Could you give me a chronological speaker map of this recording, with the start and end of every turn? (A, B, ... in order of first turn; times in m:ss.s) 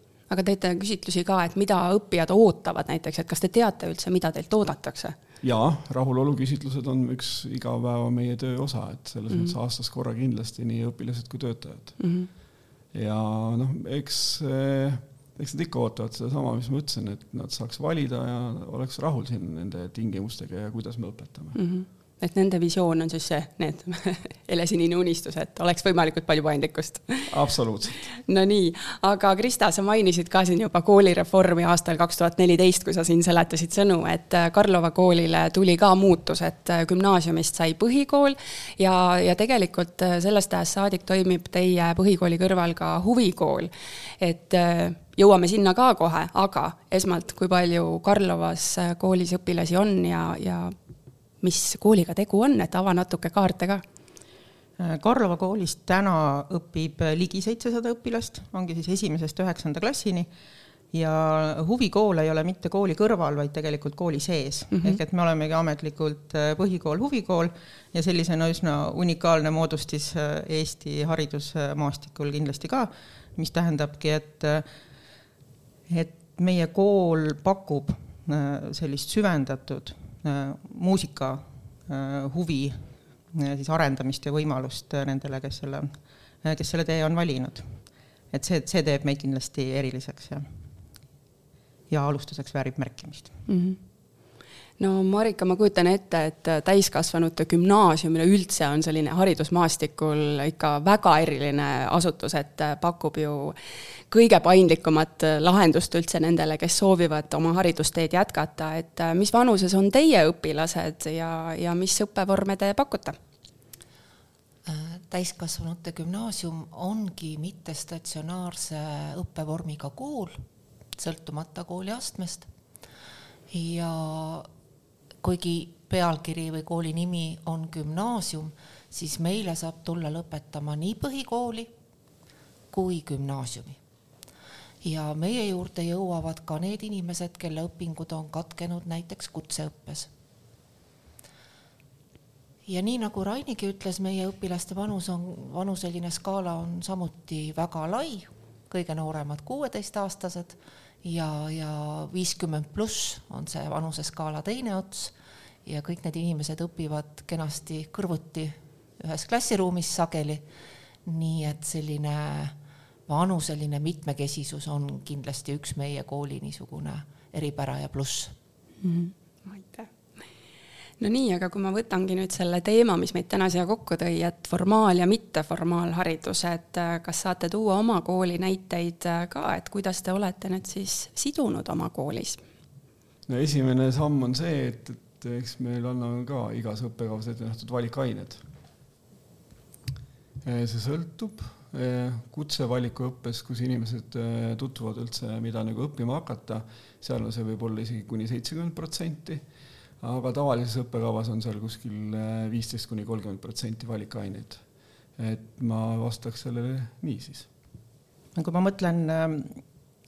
0:00.3-0:05.2 A
0:05.4-0:12.0 B
0:09.3-0:09.5 A
0:12.0-0:12.3 A
0:12.9-0:21.6 B
0:21.5-0:27.3 A
0:27.3-0:28.0 B
0:28.2-0:50.7 A
0:51.4-0:53.8 A
0:54.8-1:00.3 C
1:00.9-1:14.6 C
1:04.7-1:05.0 A
1:15.9-1:30.4 C
1:31.9-1:33.3 C
1:33.5-1:33.8 A
1:34.8-1:43.5 A
1:44.1-1:53.2 A
1:54.6-2:00.4 D
2:01.0-2:02.5 D
2:03.5-2:04.5 D
2:05.2-2:11.7 D
2:12.7-2:13.8 D
2:14.8-2:20.1 D
2:22.6-2:35.1 D
2:35.6-2:40.4 D
2:41.0-2:42.5 D
2:43.1-2:48.3 D
2:48.8-2:49.9 A
2:51.0-3:02.4 A
3:03.3-3:08.4 B
3:10.4-3:19.4 B
3:20.0-3:24.6 B
3:25.2-3:27.5 B
3:28.4-3:29.6 C